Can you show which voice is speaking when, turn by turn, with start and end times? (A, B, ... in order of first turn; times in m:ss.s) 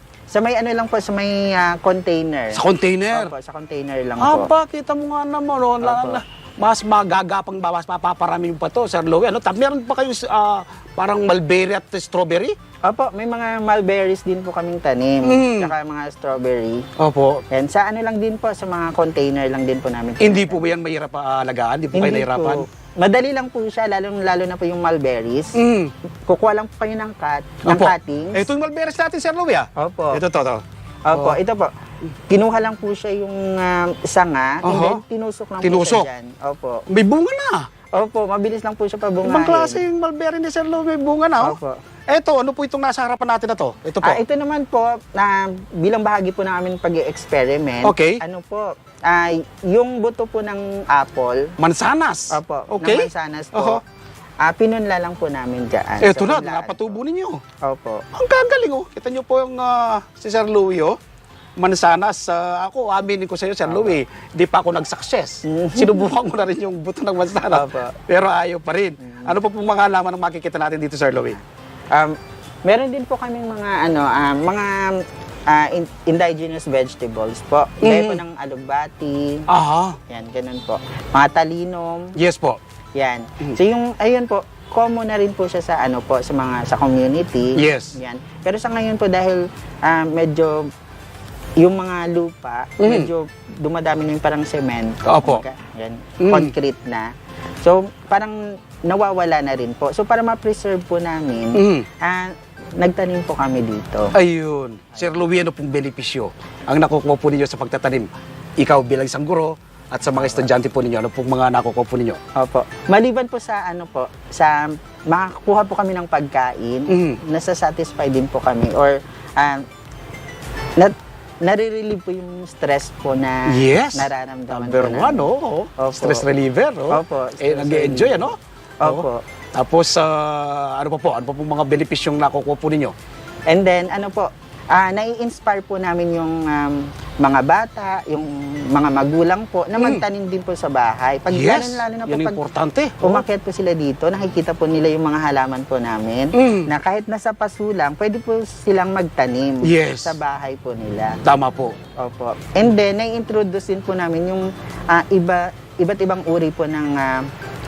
0:00.3-0:04.5 A
0:02.5-0:03.3 B
0:04.2-0:12.5 B
0:05.8-0:06.2 A
0:12.8-0:16.8 A
0:15.2-0:15.7 B
0:17.0-0:17.4 B
0:17.5-0:20.6 A
0:20.2-0:22.6 B
0:21.9-0:25.6 A
0:25.6-0:25.9 B
0:26.3-0:28.5 A
0:27.6-0:30.6 B
0:29.8-0:30.2 A
0:31.1-0:31.7 A
0:32.3-0:36.9 A
0:34.6-0:35.0 B
0:35.6-0:36.1 B
0:36.9-0:37.7 B
0:37.9-0:39.8 A
0:39.2-0:41.6 B
0:41.4-0:41.8 A
0:42.1-0:44.2 B
0:44.0-0:51.5 A
0:47.8-0:48.2 B
0:51.6-0:53.8 B
0:52.3-0:53.8 A
0:54.4-0:57.0 A
0:56.0-0:57.4 B
0:57.6-0:58.0 A
0:58.1-1:01.0 B
1:01.6-1:11.4 B
1:03.7-1:04.0 A
1:05.5-1:06.1 A
1:07.5-1:08.0 A
1:09.0-1:09.3 A
1:11.9-1:19.5 A
1:17.8-1:18.2 B
1:19.5-1:20.0 B
1:20.1-1:22.1 A
1:22.2-1:22.6 B
1:23.0-1:30.7 A
1:27.6-1:28.0 B
1:31.6-1:37.1 A
1:32.8-1:33.1 B
1:35.0-1:35.4 B
1:36.2-1:36.5 B
1:37.6-1:44.1 A
1:41.6-1:41.9 B
1:44.2-1:48.1 B
1:48.6-1:52.2 B
1:50.1-1:50.5 A
1:52.4-1:59.6 A
1:56.9-1:57.2 B
2:00.8-2:06.2 A
2:03.5-2:12.9 B
2:06.9-2:09.2 A
2:13.5-2:22.4 A
2:19.8-2:20.0 B
2:21.3-2:23.2 B
2:23.0-2:31.2 A
2:26.4-2:26.7 B
2:29.6-2:30.2 B
2:31.2-2:31.7 B
2:32.0-2:37.2 A